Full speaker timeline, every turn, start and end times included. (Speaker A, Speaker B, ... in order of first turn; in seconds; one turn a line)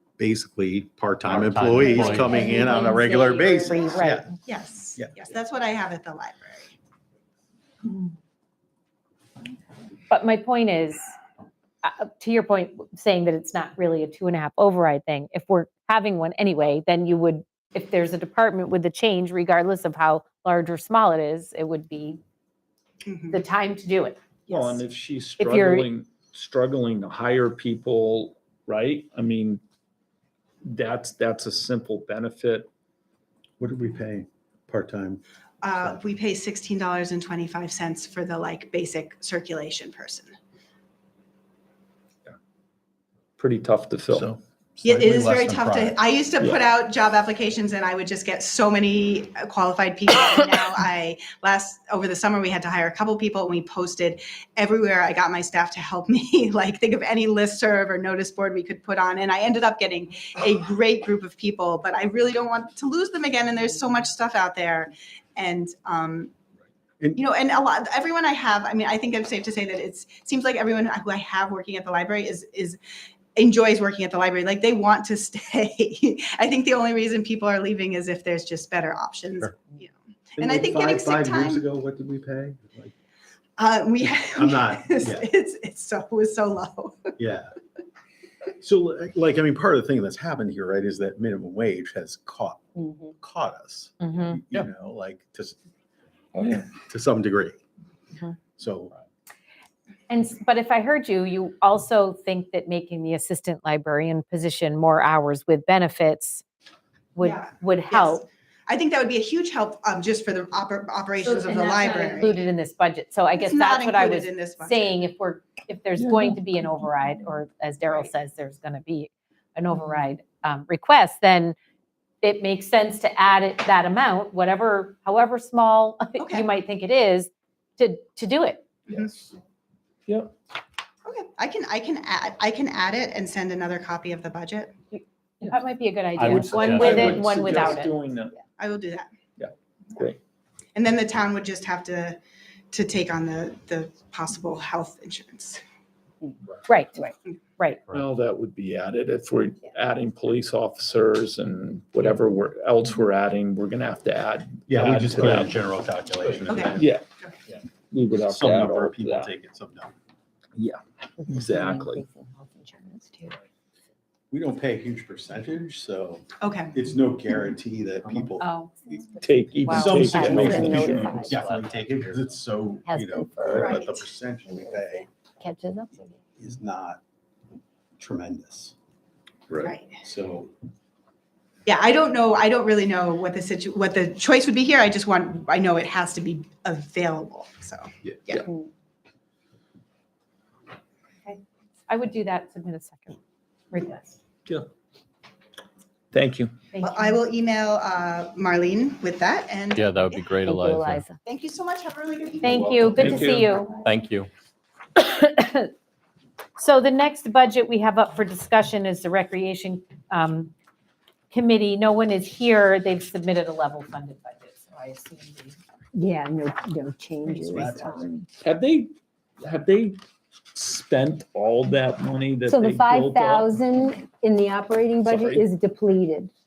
Speaker A: 0.2-4.3
Speaker B: 1.2-2.3
Speaker C: 1.8-4.3
Speaker D: 4.5-6.7
Speaker C: 10.1-11.0
Speaker C: 11.8-22.2
Speaker D: 23.1-23.4
Speaker C: 23.3-24.8
Speaker E: 24.5-29.6
Speaker C: 25.4-25.9
Speaker E: 30.6-32.7
Speaker A: 33.6-35.2
Speaker D: 35.6-40.3
Speaker E: 43.4-44.4
Speaker A: 44.1-46.0
Speaker D: 44.8-66.3
Speaker D: 67.2-72.8
Speaker D: 73.3-81.6
Speaker A: 80.4-82.9
Speaker D: 83.6-87.1
Speaker A: 84.2-85.3
Speaker A: 87.2-87.5
Speaker A: 88.6-95.6
Speaker F: 92.8-93.1
Speaker C: 94.0-94.4
Speaker E: 96.3-96.7
Speaker A: 96.5-97.6
Speaker A: 98.6-98.9
Speaker C: 100.1-106.4
Speaker C: 107.2-108.2
Speaker D: 107.2-112.3
Speaker C: 111.2-121.6
Speaker D: 113.3-115.0
Speaker E: 116.0-116.4
Speaker C: 122.2-128.7
Speaker D: 126.2-126.5
Speaker D: 128.9-129.1
Speaker E: 128.9-129.3
Speaker E: 130.1-130.3
Speaker D: 131.0-134.7
Speaker C: 134.9-137.9
Speaker E: 136.2-138.3
Speaker B: 136.6-136.9
Speaker D: 138.6-139.1
Speaker E: 139.4-140.2
Speaker D: 140.8-142.2
Speaker D: 142.7-145.6
Speaker C: 146.7-147.8
Speaker E: 147.9-155.6
Speaker A: 154.7-156.9
Speaker D: 156.5-157.3
Speaker E: 156.7-157.0
Speaker E: 157.8-159.3
Speaker A: 158.2-159.9
Speaker E: 160.6-162.0
Speaker F: 161.2-163.4
Speaker A: 164.3-168.4
Speaker D: 166.4-166.8
Speaker C: 168.4-168.8
Speaker F: 168.9-171.4
Speaker E: 169.2-171.2
Speaker C: 169.6-170.5
Speaker A: 169.7-175.1
Speaker B: 171.0-172.2
Speaker F: 172.8-173.9
Speaker D: 173.6-173.8
Speaker F: 174.5-176.2
Speaker A: 176.4-177.0
Speaker A: 178.0-178.7
Speaker E: 179.5-179.7
Speaker D: 179.6-180.0
Speaker A: 180.0-180.5
Speaker D: 181.7-188.4
Speaker C: 191.2-193.2
Speaker C: 193.7-194.2
Speaker E: 196.1-196.5
Speaker C: 196.7-197.2
Speaker D: 196.8-200.4
Speaker B: 199.8-201.0
Speaker F: 200.4-201.2
Speaker D: 201.2-203.3
Speaker C: 202.4-203.8
Speaker E: 202.5-203.6
Speaker B: 203.8-204.3
Speaker C: 204.9-205.7
Speaker C: 206.6-210.5
Speaker C: 211.3-215.6
Speaker F: 215.9-218.2
Speaker A: 217.5-218.1
Speaker E: 218.4-220.0
Speaker E: 220.5-223.5
Speaker F: 222.4-226.3
Speaker E: 225.0-225.4